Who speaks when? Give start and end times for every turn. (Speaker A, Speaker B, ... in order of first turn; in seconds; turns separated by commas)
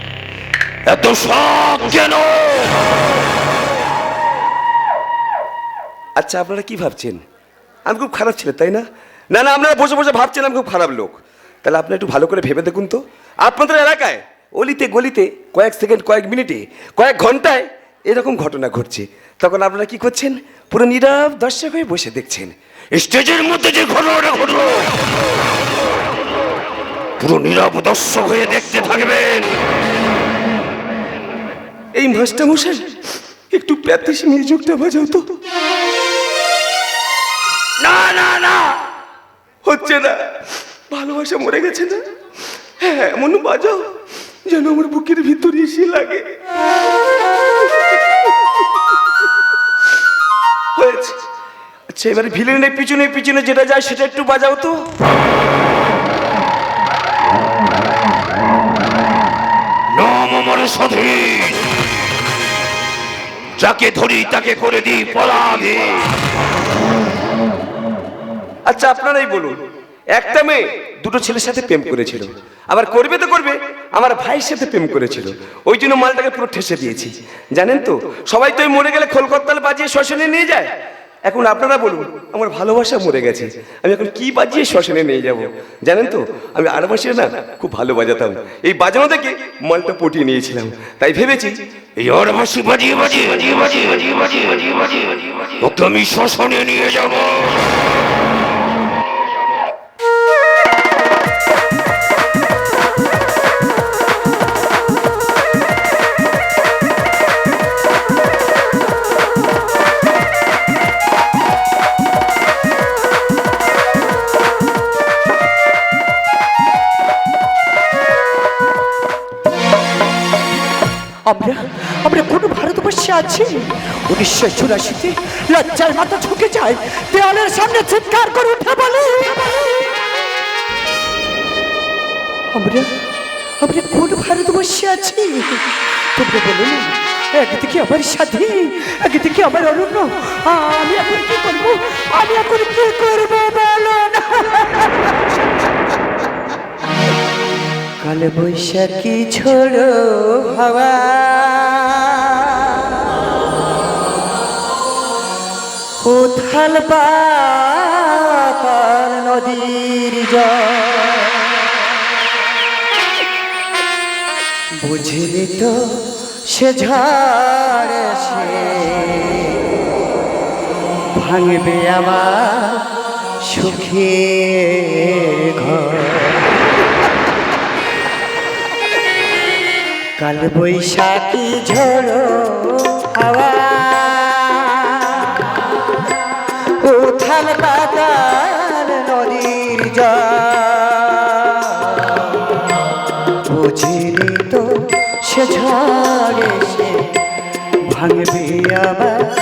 Speaker A: 0.9-3.0, Speaker B: 6.2-7.2, Speaker B: 7.9-22.5, Speaker A: 22.9-24.9, Speaker A: 27.2-29.6, Speaker B: 32.0-32.9, Speaker B: 33.5-35.3, Speaker A: 37.8-38.8, Speaker B: 39.6-40.2, Speaker B: 40.9-42.0, Speaker B: 42.8-43.9, Speaker B: 44.5-46.3, Speaker B: 50.8-51.2, Speaker B: 51.9-54.8, Speaker A: 59.9-61.6, Speaker A: 63.6-66.2, Speaker B: 68.7-69.6, Speaker B: 70.2-80.7, Speaker B: 81.2-91.6, Speaker A: 92.0-97.7, Speaker C: 121.3-130.2, Speaker C: 132.5-132.9, Speaker C: 133.6-145.2, Speaker C: 148.0-153.2, Speaker C: 156.0-161.7, Speaker C: 164.8-165.8, Speaker C: 166.5-169.9, Speaker C: 171.2-172.9, Speaker C: 173.4-176.5, Speaker C: 180.2-186.2, Speaker C: 186.8-192.4, Speaker C: 193.5-194.7, Speaker C: 195.2-197.0, Speaker C: 197.9-199.2